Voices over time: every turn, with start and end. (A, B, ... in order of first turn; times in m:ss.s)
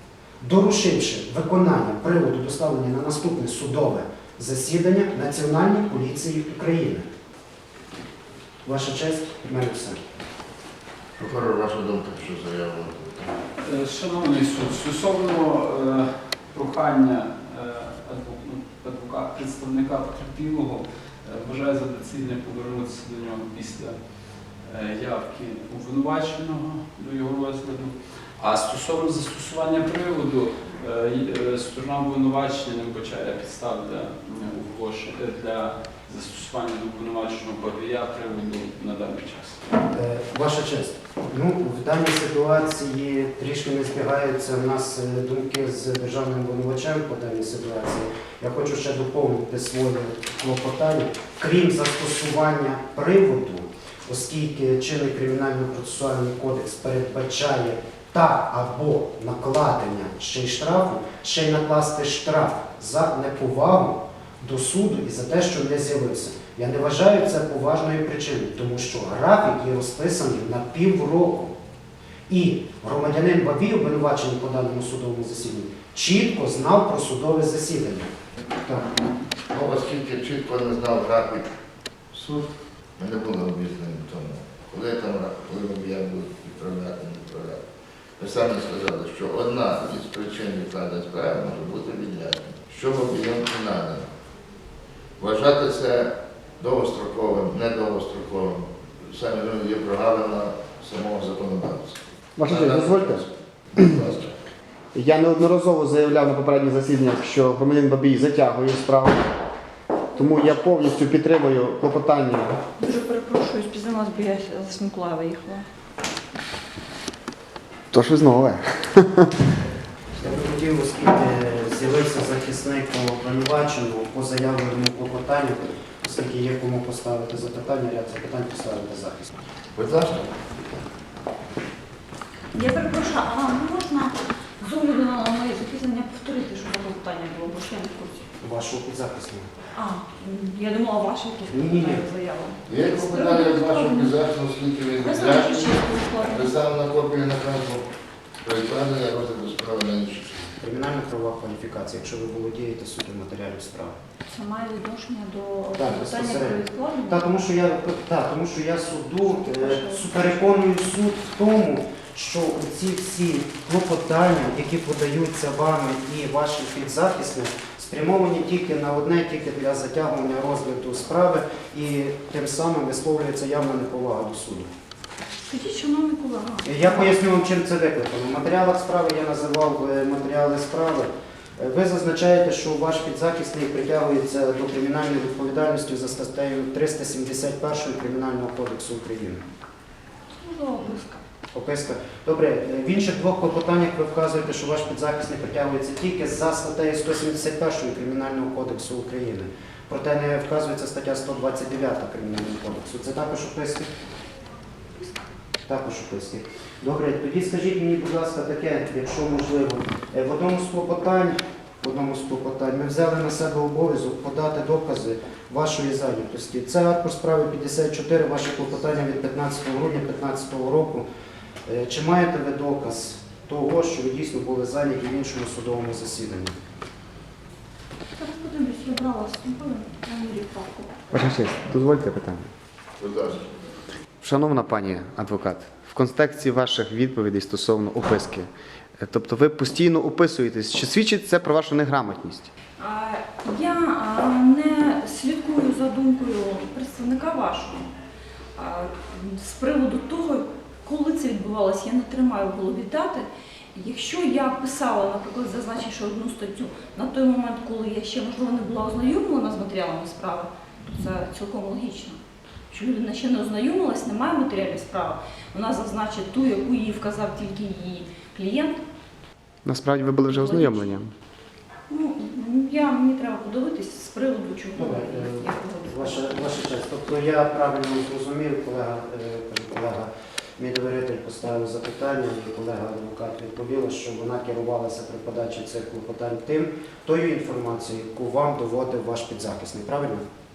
0:00.4-0:07.1 A
0:08.6-0:10.0 A
0:11.2-0:13.3 B
0:13.6-0:24.0 C
0:24.6-0:39.6 C
0:39.9-1:11.6 A
1:12.3-1:18.1 A
1:19.5-1:21.5 B
1:22.1-1:27.6 B
1:28.2-1:34.0 B
1:35.2-1:44.4 B
1:42.4-1:43.2 D
1:44.9-1:49.2 D
1:50.2-1:52.6 D
1:52.8-1:55.6 E
1:57.9-1:59.3 D
2:00.2-2:09.3 A
2:09.8-2:10.3 B
2:12.5-2:18.3 E
2:18.4-2:19.5 A
2:19.8-2:24.1 E
2:21.5-2:22.0 A
2:22.7-2:27.9 B
2:25.0-2:26.5 E
2:28.4-2:30.5 B
2:30.6-2:34.0 A
2:34.3-2:37.3 E
2:35.8-2:54.7 A
2:39.6-2:40.0 E
2:55.5-2:57.1 E
2:56.6-3:09.5 A
3:10.4-3:11.2 E
3:11.5-3:23.9 A
3:25.7-3:41.0 A
3:41.7-3:46.6 A
3:48.2-3:51.0 E
3:51.1-3:52.5 D
3:53.0-3:53.5 B
3:54.2-4:02.5 D
4:02.8-4:07.9 E
4:08.6-4:22.2 E
4:22.7-4:28.8 E
4:29.7-4:31.1 D
4:30.3-4:31.0 E
4:31.9-4:36.5 E
4:34.8-4:50.3 A